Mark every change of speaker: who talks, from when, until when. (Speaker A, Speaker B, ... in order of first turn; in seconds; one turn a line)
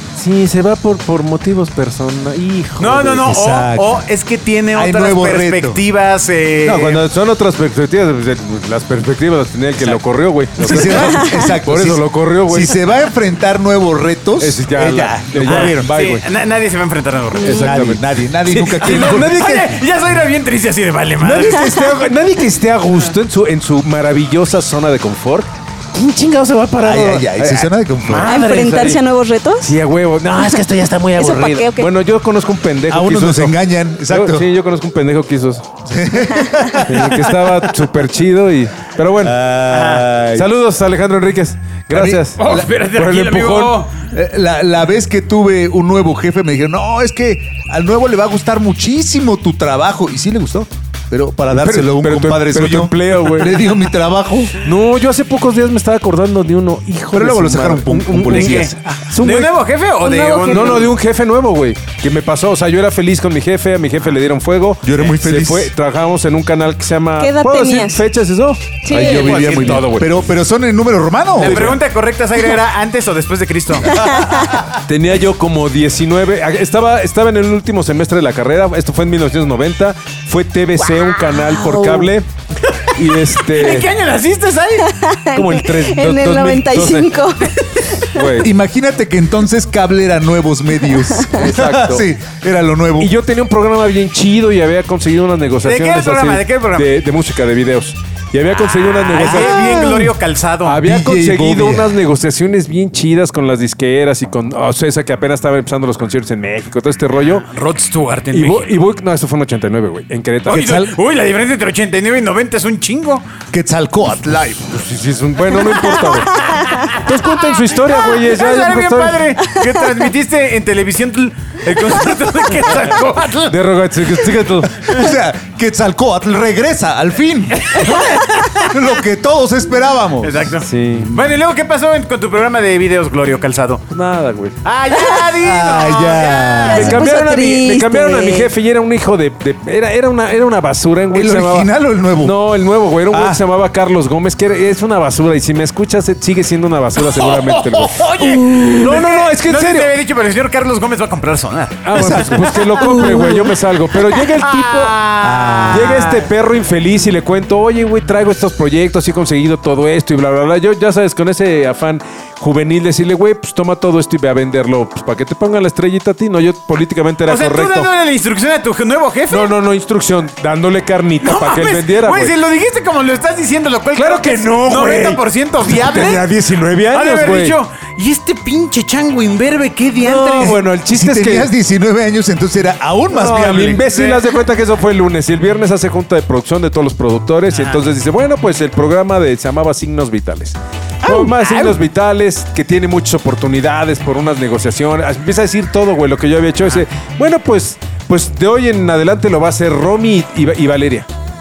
Speaker A: 0.1-3.3
Speaker B: 2.8-7.0
Speaker C: 3.2-4.0
Speaker C: 4.7-5.8
Speaker A: 6.6-12.8
Speaker C: 10.6-15.9
Speaker B: 10.6-11.2
Speaker A: 14.4-16.2
Speaker B: 15.5-17.6
Speaker D: 17.4-17.9
Speaker A: 17.4-19.6
Speaker C: 17.5-19.8
Speaker B: 18.8-21.7
Speaker A: 21.4-29.0
Speaker D: 21.6-21.9
Speaker C: 26.8-28.4
Speaker D: 28.2-29.8
Speaker A: 29.6-35.8
Speaker D: 31.1-31.9
Speaker C: 32.9-34.5
Speaker C: 35.8-37.4
Speaker A: 36.9-39.5
Speaker C: 39.2-40.5
Speaker B: 39.7-40.1
Speaker A: 40.2-43.8
Speaker C: 41.9-42.7
Speaker B: 42.4-44.0
Speaker C: 44.1-54.5
Speaker A: 51.5-53.7
Speaker A: 54.6-59.5
Speaker C: 57.1-58.7
Speaker B: 58.3-60.9
Speaker D: 60.0-60.9
Speaker A: 60.5-70.2
Speaker C: 64.8-65.7
Speaker D: 67.2-68.1
Speaker D: 68.8-69.5
Speaker C: 68.9-71.7
Speaker B: 69.2-69.8
Speaker B: 71.3-74.0
Speaker A: 71.4-71.8
Speaker D: 73.9-74.6
Speaker A: 74.7-82.3
Speaker D: 81.3-81.9
Speaker A: 82.9-83.9
Speaker B: 83.4-84.8
Speaker D: 84.8-88.2
Speaker A: 85.3-87.2
Speaker A: 88.1-88.5
Speaker C: 88.3-93.1
Speaker A: 91.3-92.1
Speaker A: 93.0-99.8
Speaker B: 95.6-96.9
Speaker B: 98.5-100.8
Speaker C: 99.2-100.0
Speaker A: 100.6-107.5
Speaker C: 100.8-101.9
Speaker B: 107.5-108.7
Speaker A: 108.3-110.7
Speaker B: 110.5-113.2
Speaker C: 110.5-110.9
Speaker C: 113.5-114.8
Speaker A: 114.7-119.3
Speaker B: 115.7-117.0
Speaker B: 118.1-123.6
Speaker A: 123.5-124.9
Speaker C: 124.8-127.8
Speaker B: 127.6-128.7
Speaker C: 128.6-131.1
Speaker B: 130.2-133.8
Speaker A: 130.6-131.2
Speaker A: 133.9-134.6
Speaker B: 134.6-136.9
Speaker C: 135.4-136.9
Speaker D: 136.6-138.5
Speaker A: 136.7-149.9
Speaker C: 141.1-142.4
Speaker C: 143.1-143.4
Speaker B: 147.0-156.3
Speaker A: 151.8-155.1
Speaker C: 151.9-152.5
Speaker C: 155.2-155.9
Speaker A: 155.7-167.9
Speaker B: 167.2-169.5
Speaker A: 169.3-172.3
Speaker B: 171.2-176.3
Speaker A: 173.9-177.6
Speaker B: 176.9-180.6
Speaker A: 180.0-181.5
Speaker C: 180.4-183.8
Speaker B: 183.1-184.3
Speaker A: 183.2-201.1
Speaker B: 187.5-187.8
Speaker B: 191.0-191.8